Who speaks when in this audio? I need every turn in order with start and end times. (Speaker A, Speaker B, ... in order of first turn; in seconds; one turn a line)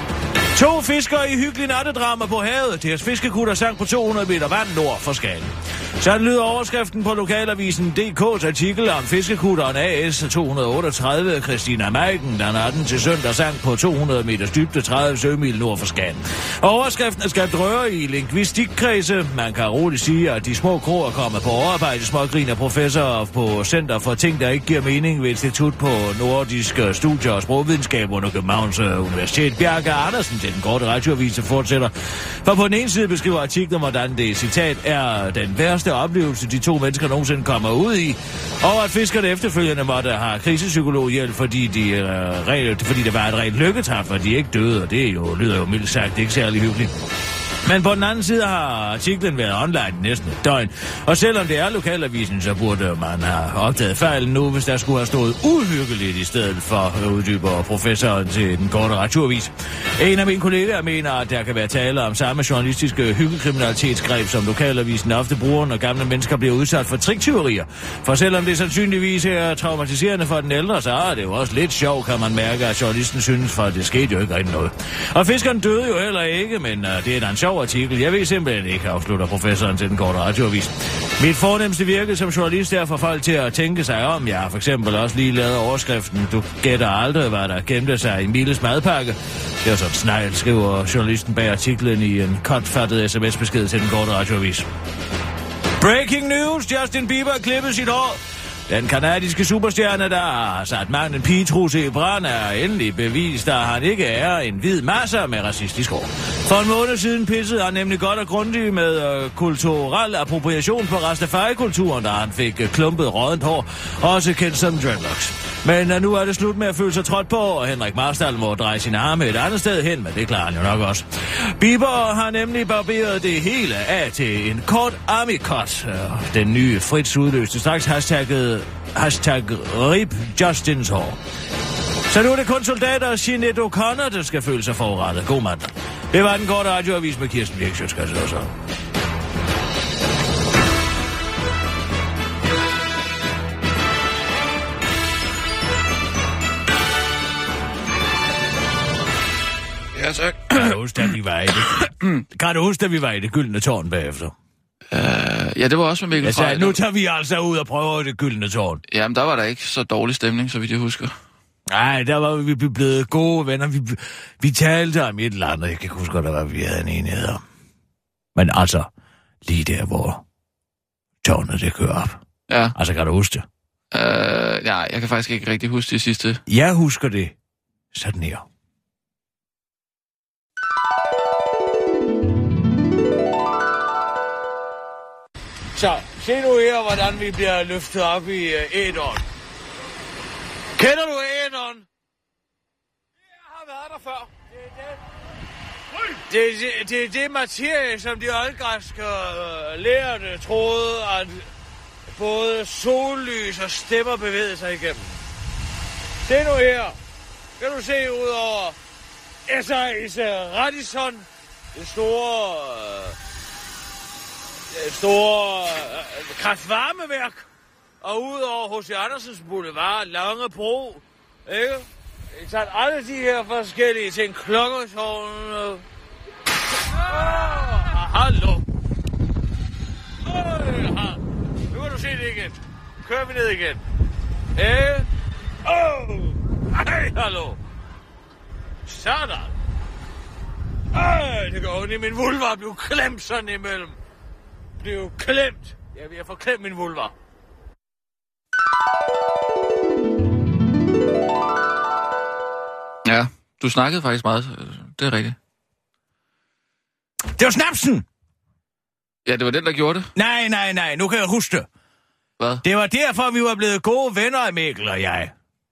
Speaker A: 0.5-46.9
Speaker A: 47.6-94.7
Speaker A: 95.8-131.2
Speaker A: 132.1-138.6
Speaker B: 149.9-150.8
Speaker A: 150.5-154.3
Speaker B: 151.9-152.2
Speaker B: 154.9-156.8
Speaker A: 156.2-158.8
Speaker B: 158.9-161.1
Speaker A: 161.7-167.4
Speaker A: 168.3-168.9
Speaker A: 169.4-170.2
Speaker A: 171.2-172.2
Speaker B: 172.5-172.8
Speaker A: 172.8-173.5
Speaker B: 173.9-176.4
Speaker A: 176.5-177.3
Speaker A: 177.9-178.4
Speaker C: 185.8-189.2
Speaker C: 190.8-191.8
Speaker C: 193.4-195.0
Speaker C: 196.3-201.4
Speaker C: 202.1-205.1
Speaker C: 206.2-207.0
Speaker C: 207.6-208.8
Speaker C: 209.5-213.2
Speaker C: 214.7-217.4
Speaker C: 218.0-225.8
Speaker C: 227.1-228.6
Speaker C: 230.2-231.2
Speaker C: 231.7-233.8
Speaker C: 234.6-235.1
Speaker C: 235.7-237.6
Speaker C: 238.9-239.5
Speaker C: 240.9-244.0
Speaker C: 244.8-247.1
Speaker B: 253.1-255.4
Speaker A: 257.4-258.1
Speaker B: 259.3-260.1
Speaker A: 260.1-261.7
Speaker B: 262.4-262.6
Speaker A: 262.6-265.3